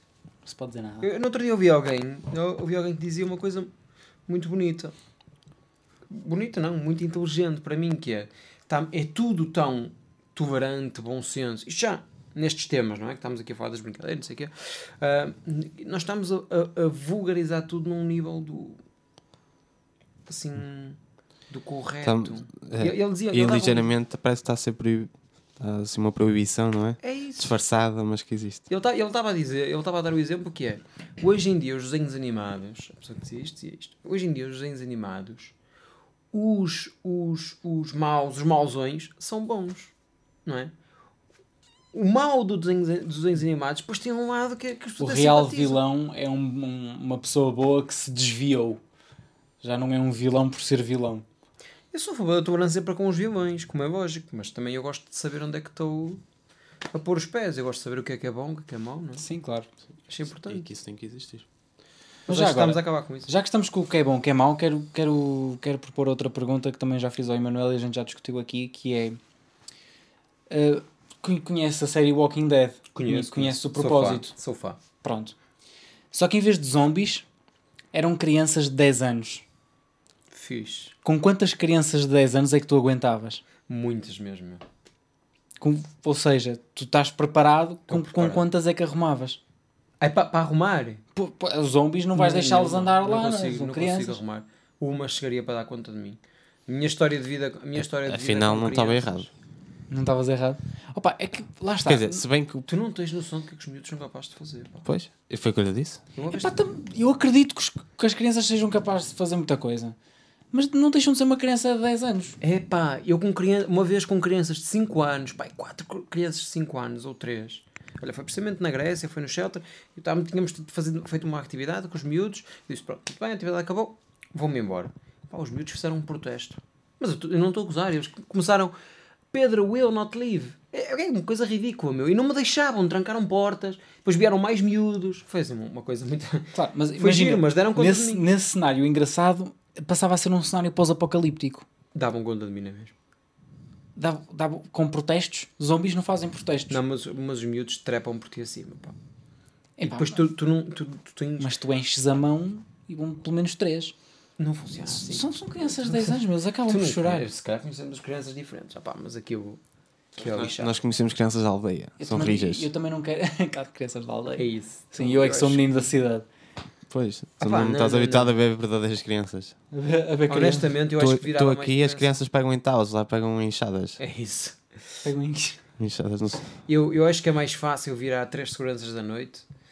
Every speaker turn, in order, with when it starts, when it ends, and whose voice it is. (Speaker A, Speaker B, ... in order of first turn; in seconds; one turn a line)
Speaker A: 0.4-1.1
Speaker B: 1.0-3.7
Speaker B: 4.3-4.9
Speaker B: 6.1-18.8
Speaker B: 20.3-21.0
Speaker B: 21.5-23.9
Speaker C: 22.0-28.7
Speaker B: 27.0-27.5
Speaker B: 28.7-35.5
Speaker B: 36.3-39.9
Speaker B: 40.5-40.7
Speaker B: 41.9-45.8
Speaker A: 45.0-48.8
Speaker A: 49.6-51.2
Speaker B: 51.9-56.2
Speaker B: 56.9-59.2
Speaker A: 59.2-59.7
Speaker B: 60.1-60.7
Speaker C: 60.5-61.5
Speaker B: 62.3-63.3
Speaker A: 62.3-69.2
Speaker A: 70.5-74.3
Speaker B: 72.9-74.8
Speaker A: 75.0-75.3
Speaker A: 76.1-77.2
Speaker A: 77.9-79.4
Speaker B: 80.3-80.9
Speaker A: 81.0-83.4
Speaker B: 83.7-84.6
Speaker A: 85.6-89.4
Speaker B: 87.9-88.4
Speaker B: 90.0-91.0
Speaker A: 91.2-94.2
Speaker B: 92.2-99.3
Speaker C: 97.9-99.3
Speaker A: 99.9-102.2
Speaker C: 101.8-102.7
Speaker B: 102.7-104.8
Speaker C: 104.8-106.0
Speaker B: 106.1-106.5
Speaker A: 106.3-109.9
Speaker A: 110.5-112.4
Speaker B: 112.4-128.7
Speaker B: 129.3-138.2
Speaker A: 136.5-141.6
Speaker B: 141.9-142.9
Speaker A: 143.9-146.8
Speaker B: 146.7-148.9
Speaker A: 149.8-150.2
Speaker B: 149.8-151.5
Speaker A: 151.4-153.9
Speaker B: 154.4-159.6
Speaker A: 154.9-157.3
Speaker B: 160.1-160.8
Speaker C: 160.2-162.7
Speaker A: 162.0-166.2
Speaker B: 164.4-165.8
Speaker C: 166.9-169.6
Speaker B: 167.4-168.3
Speaker A: 169.7-170.8
Speaker B: 170.3-172.1
Speaker C: 171.0-174.0
Speaker B: 174.0-175.0
Speaker A: 175.0-175.6
Speaker C: 175.8-176.6
Speaker B: 176.7-179.4